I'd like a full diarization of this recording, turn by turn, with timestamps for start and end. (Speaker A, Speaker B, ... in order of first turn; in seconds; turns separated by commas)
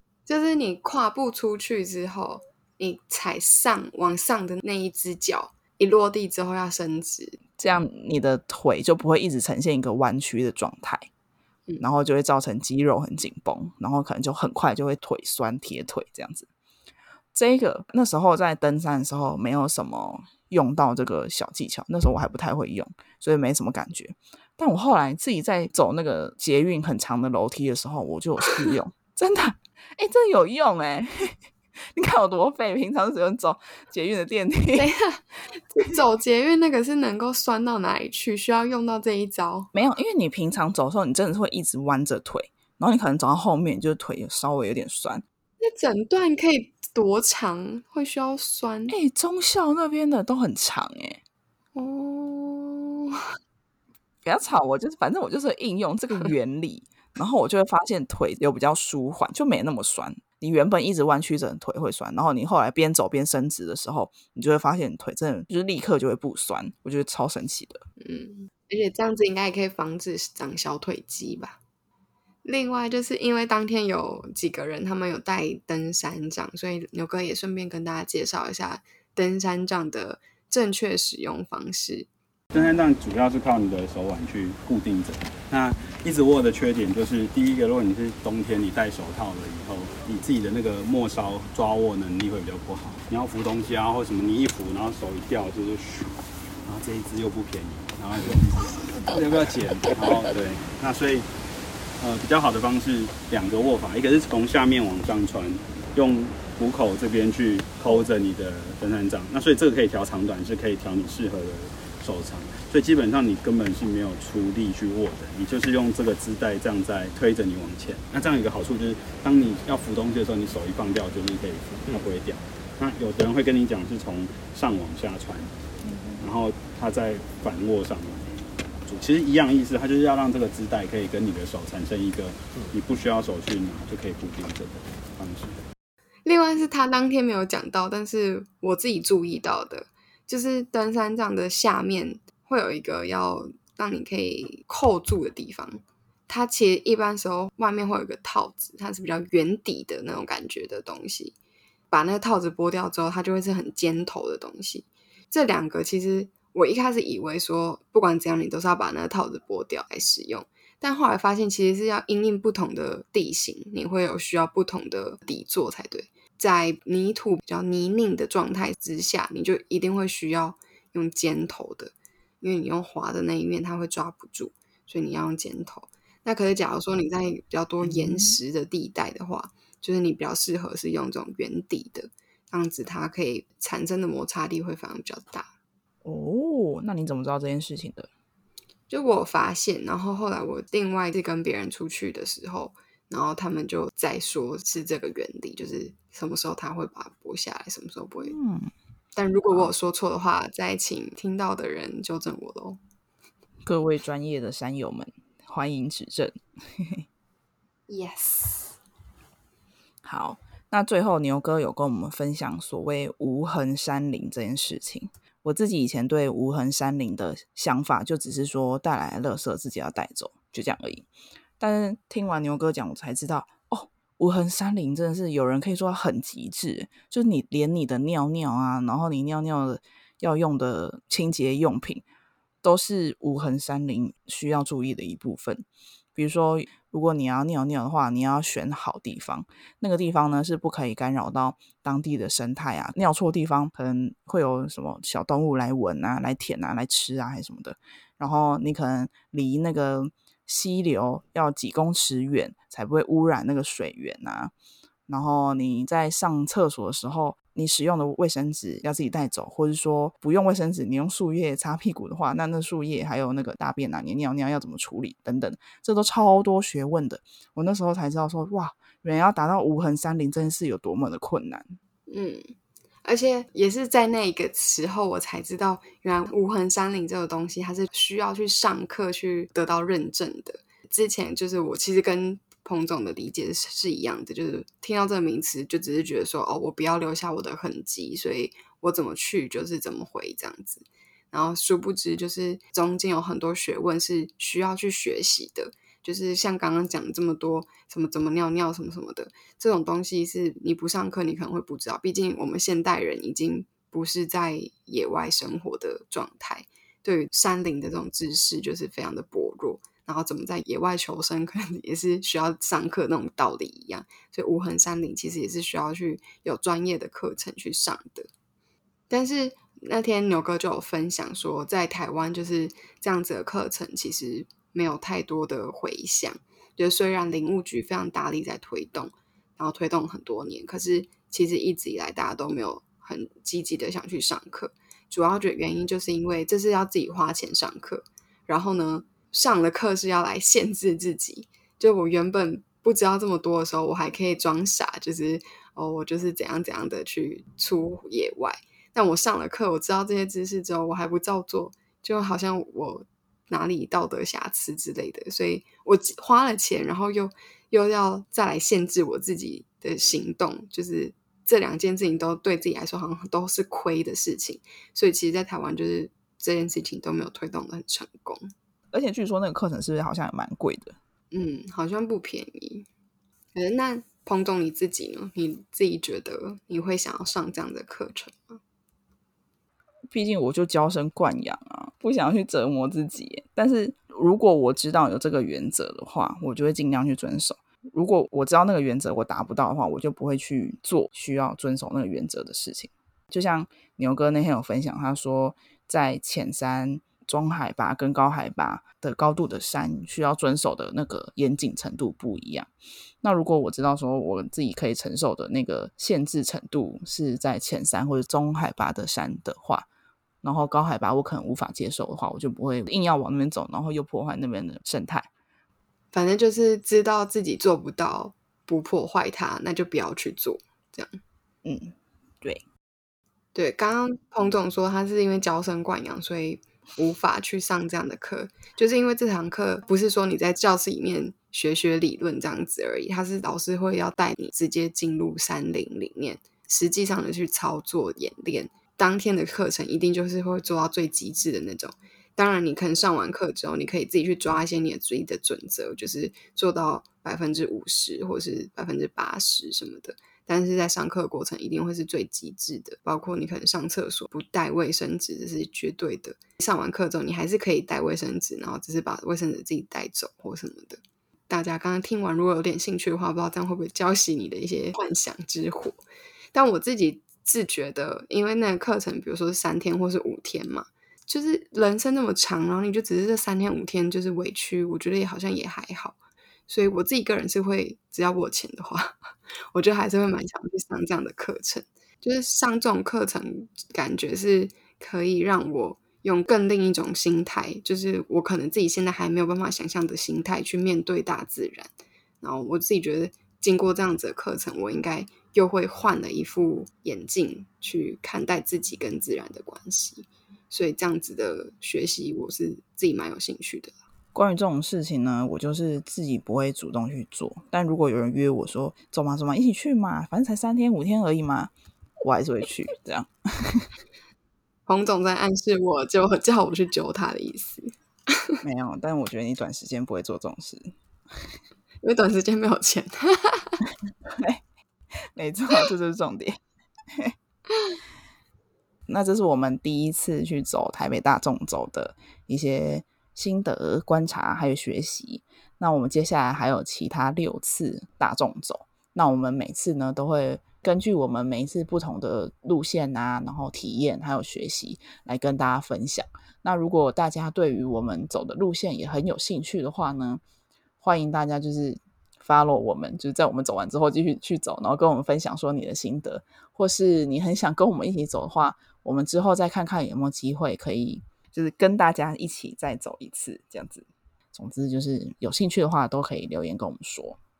Speaker A: 0.3-7.4, Speaker B: 7.6-11.1, Speaker B: 11.8-16.5, Speaker B: 17.3-31.4, Speaker B: 31.9-34.9, Speaker A: 34.7-39.7, Speaker B: 39.7-45.2, Speaker A: 45.6-48.9, Speaker B: 48.9-51.2, Speaker A: 51.8-53.2, Speaker B: 54.2-67.8, Speaker A: 68.0-71.6, Speaker A: 72.4-82.1, Speaker C: 82.5-101.3, Speaker C: 102.0-125.5, Speaker C: 126.2-135.6, Speaker A: 136.2-151.3, Speaker A: 151.9-185.5, Speaker B: 177.8-178.3, Speaker B: 186.0-188.1, Speaker A: 188.9-198.4, Speaker B: 198.3-198.7, Speaker A: 199.2-202.8, Speaker B: 203.6-207.0, Speaker A: 207.9-208.8, Speaker B: 210.0-221.1, Speaker B: 221.6-232.0, Speaker B: 232.6-254.5, Speaker B: 255.1-271.8, Speaker A: 272.1-272.5, Speaker A: 273.0-318.3, Speaker A: 319.1-368.5, Speaker B: 368.9-370.9, Speaker A: 371.3-372.9, Speaker A: 373.5-378.6, Speaker B: 380.1-402.7, Speaker B: 403.2-409.9, Speaker B: 410.4-415.3, Speaker A: 416.1-421.2, Speaker B: 421.6-422.6, Speaker A: 423.5-466.0, Speaker A: 466.5-476.2, Speaker A: 476.7-503.9, Speaker B: 504.3-511.7, Speaker B: 512.2-513.9, Speaker A: 514.9-518.6, Speaker B: 518.6-520.9, Speaker A: 522.0-523.8, Speaker B: 524.2-524.6, Speaker B: 525.3-526.6, Speaker B: 529.1-550.4, Speaker B: 551.0-567.4